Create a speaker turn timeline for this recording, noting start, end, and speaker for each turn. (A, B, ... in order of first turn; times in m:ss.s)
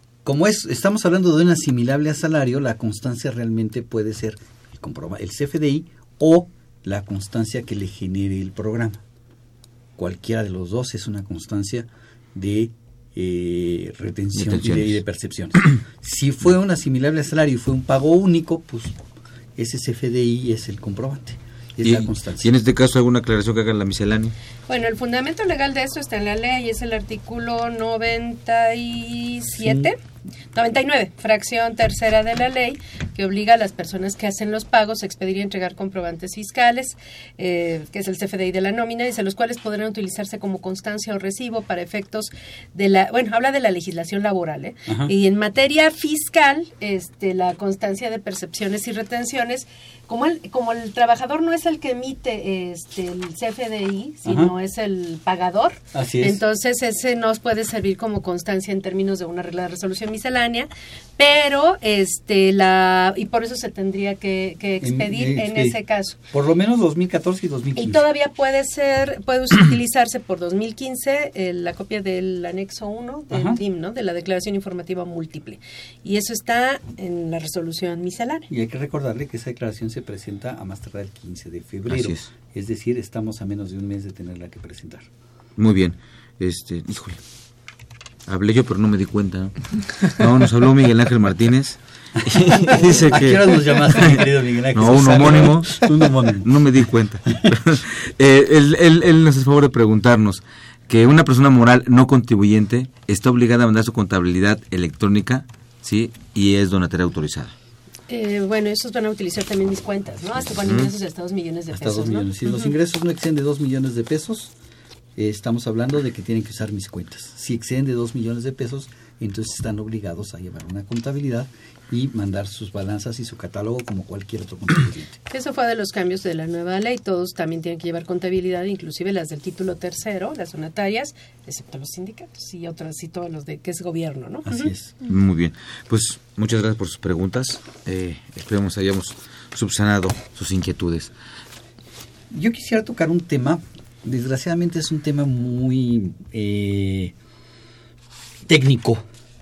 0:00.2-0:09.0 A
0:10.0-0:19.0 A
0:14.4-0:15.0 B
0:19.6-0:22.6 A
0:21.8-0:24.4 B
0:24.7-0:30.0 C
0:29.6-0:29.9 A
0:30.5-1:06.2 C
0:44.9-0:45.1 A
0:54.2-0:54.5 A
0:55.9-0:56.4 A
1:04.8-1:05.8 A
1:06.3-1:08.0 A
1:07.8-1:18.5 C
1:13.3-1:13.6 A
1:18.5-1:25.1 A
1:21.9-1:22.3 B
1:25.6-1:27.2 B
1:28.3-1:47.5 B
1:32.4-1:36.6 A
1:48.1-1:52.7 C
1:50.5-1:50.9 B
1:51.7-1:54.5 A
1:55.2-2:05.2 A
2:05.3-2:14.7 C
2:14.5-2:15.0 A
2:15.0-2:21.1 B
2:22.3-2:27.2 A
2:28.5-2:29.0 A